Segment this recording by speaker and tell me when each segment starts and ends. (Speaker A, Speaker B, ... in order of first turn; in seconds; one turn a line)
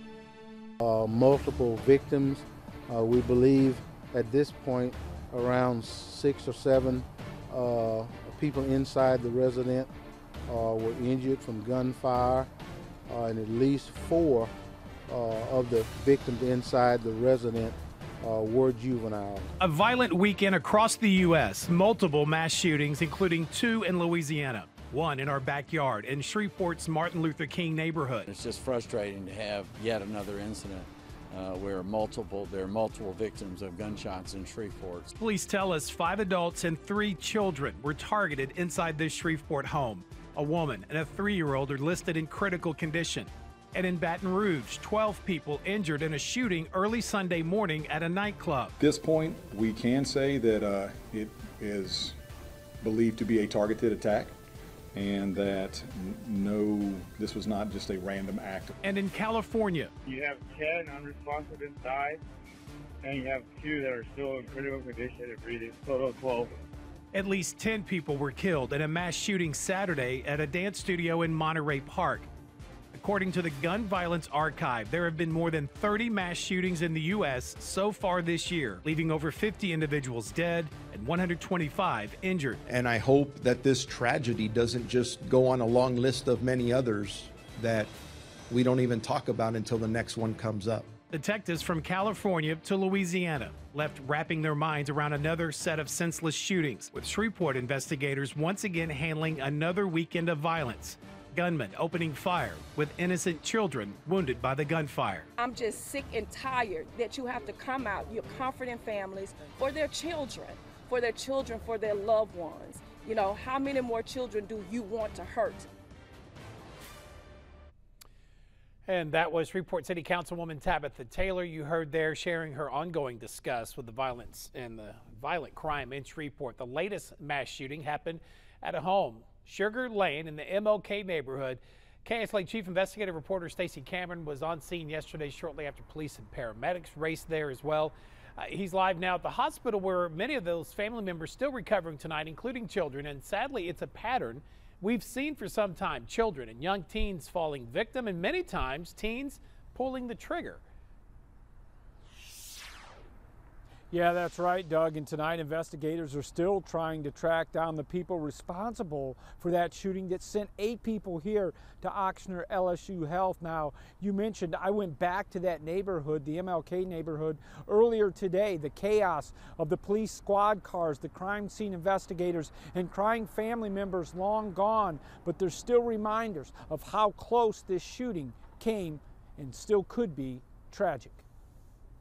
Speaker A: 0.8-9.9
Speaker A: 10.5-12.5
Speaker A: 13.1-14.5
Speaker A: 15.1-19.5
Speaker B: 19.6-28.3
Speaker C: 28.3-35.1
Speaker B: 35.2-48.8
Speaker D: 48.8-52.2
Speaker D: 52.8-54.3
Speaker D: 54.9-58.8
Speaker B: 58.8-59.9
Speaker E: 60.1-62.2
Speaker E: 63.0-66.5
Speaker B: 67.1-72.3
Speaker B: 72.9-82.6
Speaker F: 82.7-87.9
Speaker F: 88.5-90.9
Speaker B: 91.1-105.3
Speaker G: 105.4-115.6
Speaker B: 118.9-150.6
Speaker H: 153.9-181.2